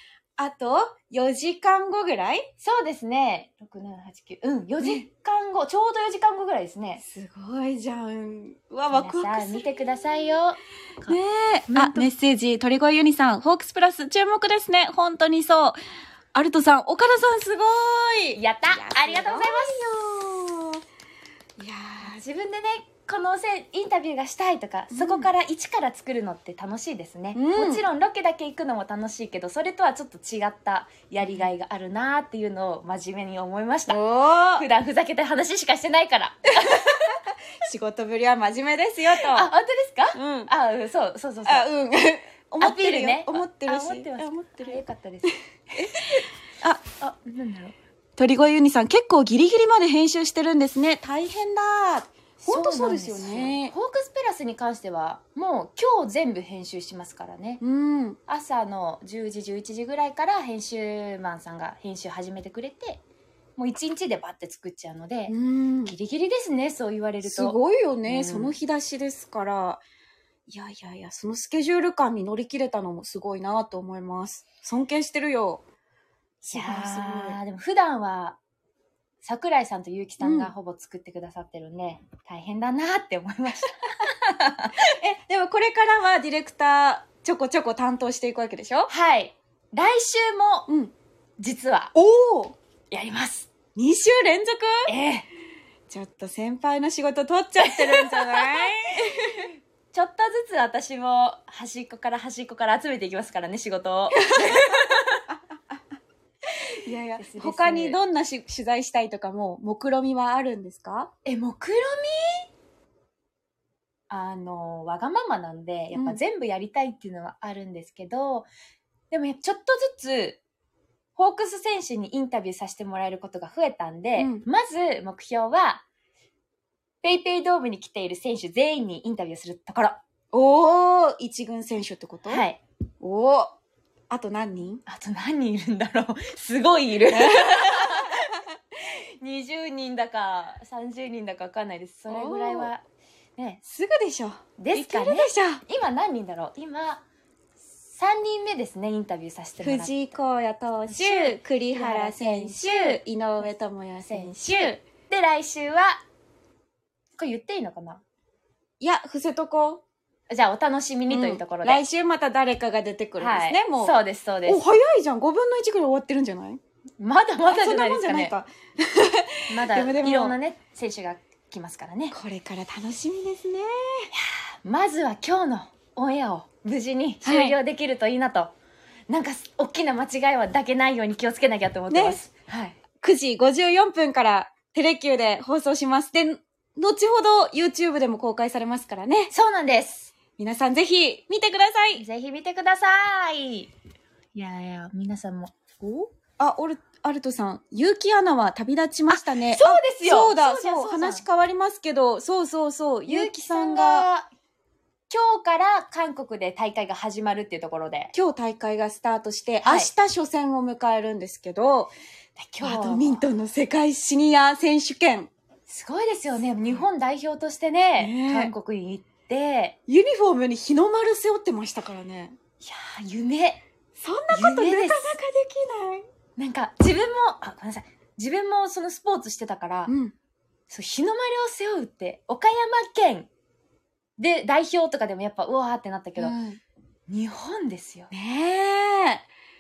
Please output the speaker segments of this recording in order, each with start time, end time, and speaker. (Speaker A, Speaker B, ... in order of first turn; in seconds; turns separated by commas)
Speaker A: 0.4-2.5, Speaker B: 2.6-7.0, Speaker A: 7.0-9.7, Speaker B: 8.9-12.2, Speaker A: 11.1-15.8, Speaker A: 16.3-20.8, Speaker B: 18.3-19.8, Speaker A: 21.6-22.1, Speaker B: 22.0-34.0, Speaker A: 24.9-25.3, Speaker A: 27.3-27.9, Speaker A: 33.9-34.7, Speaker B: 34.5-37.1, Speaker A: 36.6-39.5, Speaker B: 39.2-41.7, Speaker A: 40.1-40.5, Speaker A: 41.5-44.8, Speaker B: 42.6-45.9, Speaker A: 45.8-46.8, Speaker B: 47.0-47.8, Speaker A: 48.2-53.7, Speaker B: 52.4-57.6, Speaker A: 57.6-58.2, Speaker B: 58.3-63.0, Speaker B: 63.6-68.6, Speaker A: 65.3-66.0, Speaker A: 67.2-69.8, Speaker A: 70.5-75.6, Speaker A: 76.4-77.4, Speaker B: 76.5-78.4, Speaker B: 79.2-84.8, Speaker A: 80.2-80.5, Speaker A: 84.9-88.9, Speaker B: 88.9-90.7, Speaker A: 90.7-90.9, Speaker B: 91.4-91.9, Speaker A: 92.0-92.5, Speaker B: 92.9-93.5, Speaker A: 93.8-94.9, Speaker B: 94.9-95.3, Speaker A: 95.9-99.5, Speaker B: 97.6-98.7, Speaker B: 99.9-105.2, Speaker A: 104.3-104.6, Speaker A: 105.3-105.8, Speaker A: 106.9-111.1, Speaker B: 107.2-108.0, Speaker B: 111.2-112.5, Speaker B: 114.1-118.5, Speaker A: 115.9-116.2, Speaker B: 119.1-120.4, Speaker B: 121.2-125.8, Speaker A: 124.2-124.5, Speaker B: 127.0-130.0, Speaker A: 130.3-132.4, Speaker B: 132.3-132.6, Speaker A: 133.0-133.6, Speaker A: 134.1-134.8, Speaker B: 134.9-138.3, Speaker A: 137.1-138.3, Speaker B: 139.2-142.8, Speaker A: 142.1-142.7, Speaker B: 143.4-143.6, Speaker A: 143.7-145.6, Speaker B: 144.6-147.0, Speaker B: 147.9-149.9, Speaker A: 149.6-154.8, Speaker B: 150.9-153.0, Speaker B: 154.1-156.0, Speaker B: 157.2-158.0, Speaker A: 158.8-159.8, Speaker B: 160.3-161.8, Speaker A: 161.1-163.9, Speaker B: 163.2-164.6, Speaker A: 164.5-166.6, Speaker B: 167.0-168.3, Speaker A: 167.4-170.4, Speaker B: 169.5-172.2, Speaker A: 172.1-174.1, Speaker B: 174.2-178.5, Speaker A: 177.2-177.6, Speaker B: 179.1-182.8, Speaker A: 181.9-182.2, Speaker A: 183.0-189.3, Speaker B: 189.3-190.1, Speaker A: 190.4-192.0, Speaker B: 192.0-193.7, Speaker B: 194.3-195.6, Speaker A: 195.8-204.1, Speaker B: 199.1-201.2, Speaker B: 203.1-204.3, Speaker B: 205.1-208.1, Speaker A: 208.1-211.9, Speaker B: 209.6-209.9, Speaker B: 212.4-213.2, Speaker A: 212.6-215.3, Speaker B: 215.7-219.8, Speaker A: 216.6-216.8, Speaker A: 218.0-218.5, Speaker A: 219.9-222.4, Speaker B: 222.6-223.6, Speaker A: 224.0-226.0, Speaker B: 224.3-225.2, Speaker B: 226.4-229.9, Speaker A: 229.9-230.1, Speaker B: 230.7-233.3, Speaker B: 234.2-236.3, Speaker A: 236.2-236.6, Speaker B: 237.1-238.1, Speaker A: 238.1-239.2